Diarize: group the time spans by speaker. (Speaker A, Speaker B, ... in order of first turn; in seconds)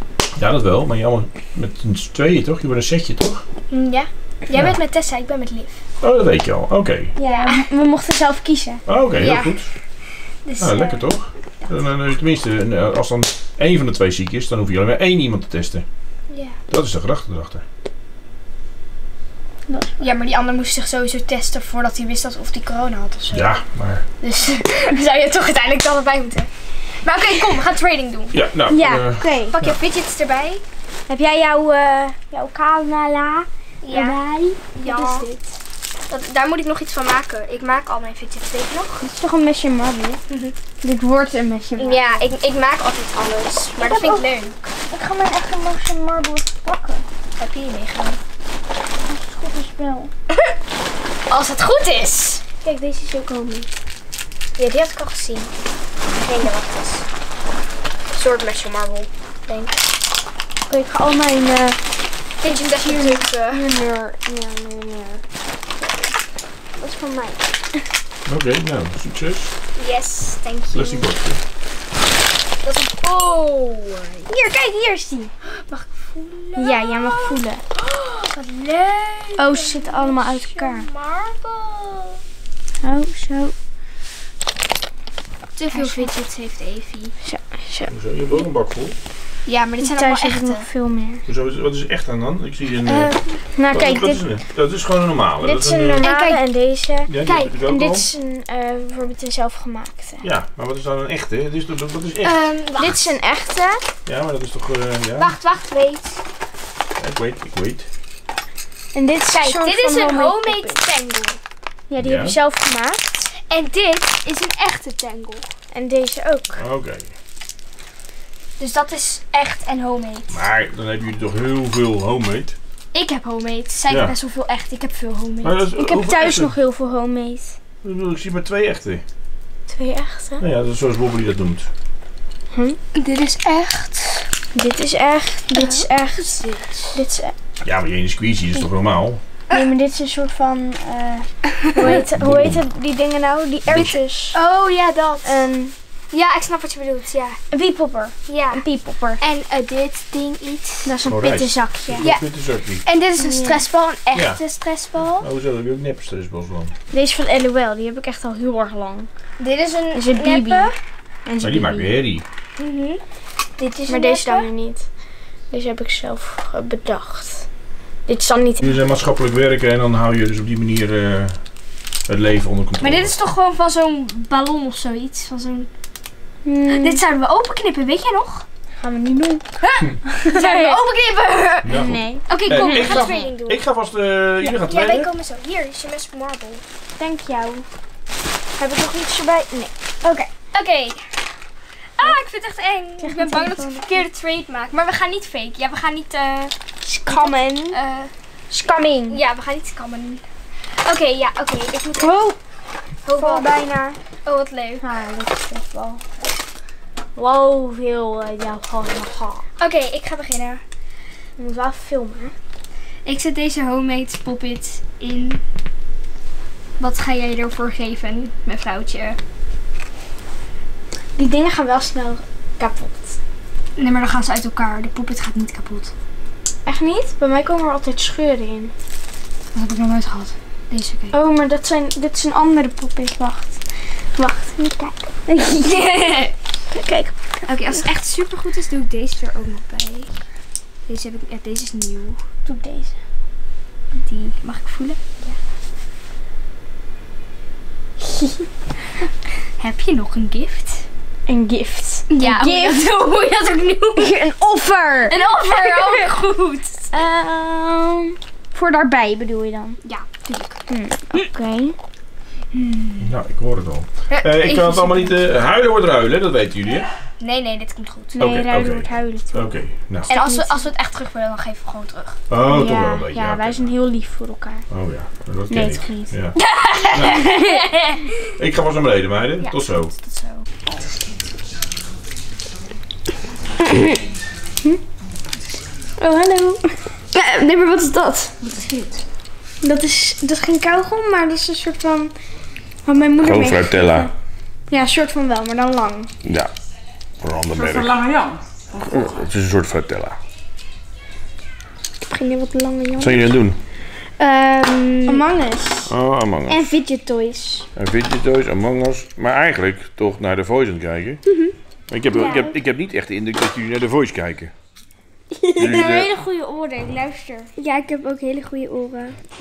Speaker A: 0.4-3.4, 6.0-7.1, 8.9-9.7, 10.6-15.8, 16.7-17.6, 23.3-24.0, 28.3-29.8, 68.3-69.5, 70.7-71.4, 87.9-89.0, 91.3-93.2, 93.7-96.1, 97.1-98.1, 100.2-102.4, 104.1-105.3, 107.0-107.9, 112.0-112.4, 116.6-117.1, 120.3-122.6, 125.4-126.5, 127.8-129.0, 130.4-131.7, 137.6-139.2, 142.0-142.6, 143.7-143.9, 151.1-152.8, 154.1-154.4, 155.2-156.7, 161.4-162.2, 168.6-171.4, 172.1-173.1, 181.6-185.1, 263.0-266.9, 268.2-270.1, 272.3-273.7, 274.7-276.4, 276.9-277.3, 278.4-279.9, 293.2-294.1, 296.2-296.5, 297.2-298.0, 298.9-300.2, 303.0-303.6, 305.9-306.8, 307.8-311.2, 311.9-314.5, 315.6-316.1
Speaker B: 3.7-5.8, 7.2-7.6, 9.2-9.6, 10.4-11.1, 16.3-16.6, 20.0-23.6, 24.2-26.5, 27.0-28.4, 29.4-30.6, 33.8-34.2, 34.8-35.3, 36.1-39.0, 40.3-40.5, 41.8-44.7, 47.4-48.2, 51.3-52.4, 54.6-55.5, 56.1-57.0, 58.1-59.9, 62.4-63.6, 69.8-71.1, 72.6-74.3, 75.4-82.2, 85.6-87.1, 89.5-90.7, 92.9-93.4, 96.0-96.4, 97.2-97.5, 102.2-103.1, 105.2-106.2, 109.3-111.4, 113.4-115.5, 118.6-120.4, 122.9-125.6, 132.9-134.3, 135.5-137.0, 143.8-145.4, 146.1-147.4, 148.3-148.6, 149.2-150.9, 152.0-155.3, 159.4-160.7, 162.6-163.0, 163.6-164.5, 172.8-175.7, 176.8-178.5, 179.6-183.6, 184.4-186.6, 190.5-191.2, 192.0-196.5, 197.1-198.1, 199.1-200.2, 200.7-202.2, 203.1-203.5, 204.2-204.8, 209.6-210.6, 213.1-215.4, 216.8-219.2, 223.8-225.9, 229.5-231.2, 235.6-236.3, 237.5-240.2, 240.9-242.2, 244.0-245.4, 249.6-250.9, 252.1-254.1, 255.1-256.9, 259.8-260.6, 262.6-263.1, 264.1-265.1, 267.2-268.2, 270.1-272.2, 276.5-278.1, 279.4-280.5, 304.2-305.2, 315.7-316.0, 317.6-318.9
Speaker C: 7.2-8.8, 19.7-20.0, 28.7-29.6, 31.1-35.5, 39.0-40.2, 40.8-42.2, 43.8-44.3, 44.9-47.0, 49.1-50.1, 52.6-53.7, 60.7-61.8, 62.4-65.2, 66.8-67.8, 74.3-75.3, 76.6-77.6, 79.4-80.9, 82.8-83.5, 85.7-86.1, 87.2-87.9, 89.8-91.2, 93.5-94.2, 95.4-100.3, 102.8-103.9, 108.9-110.8, 111.9-113.3, 115.7-116.6, 125.8-127.6, 129.7-130.4, 134.5-137.3, 139.5-144.4, 145.2-145.7, 147.5-149.2, 150.8-152.1, 153.2-153.6, 156.9-159.1, 159.9-160.7, 161.3-161.9, 163.9-164.9, 165.5-167.5, 168.1-168.7, 176.4-177.0, 178.8-179.4, 180.1-180.8, 181.7-183.3, 187.0-187.7, 188.6-190.3, 193.0-193.9, 196.8-197.8, 198.5-199.2, 202.0-202.4, 203.2-204.0, 204.8-206.0, 207.2-209.4, 211.4-212.3, 221.2-223.1, 226.7-228.7, 231.1-233.6, 234.2-235.9, 236.7-237.9, 242.4-243.0, 251.3-252.9, 254.0-255.9, 256.9-259.8, 260.7-261.8, 268.1-269.5, 270.1-270.7, 272.4-274.7, 275.5-276.1, 277.1-277.5, 286.0-288.3, 289.6-292.1, 292.9-294.1, 294.7-296.1, 302.0-303.3, 305.1-305.9, 306.5-307.7, 312.1-312.6, 315.3-319.1
Speaker D: 288.4-288.9, 297.5-299.3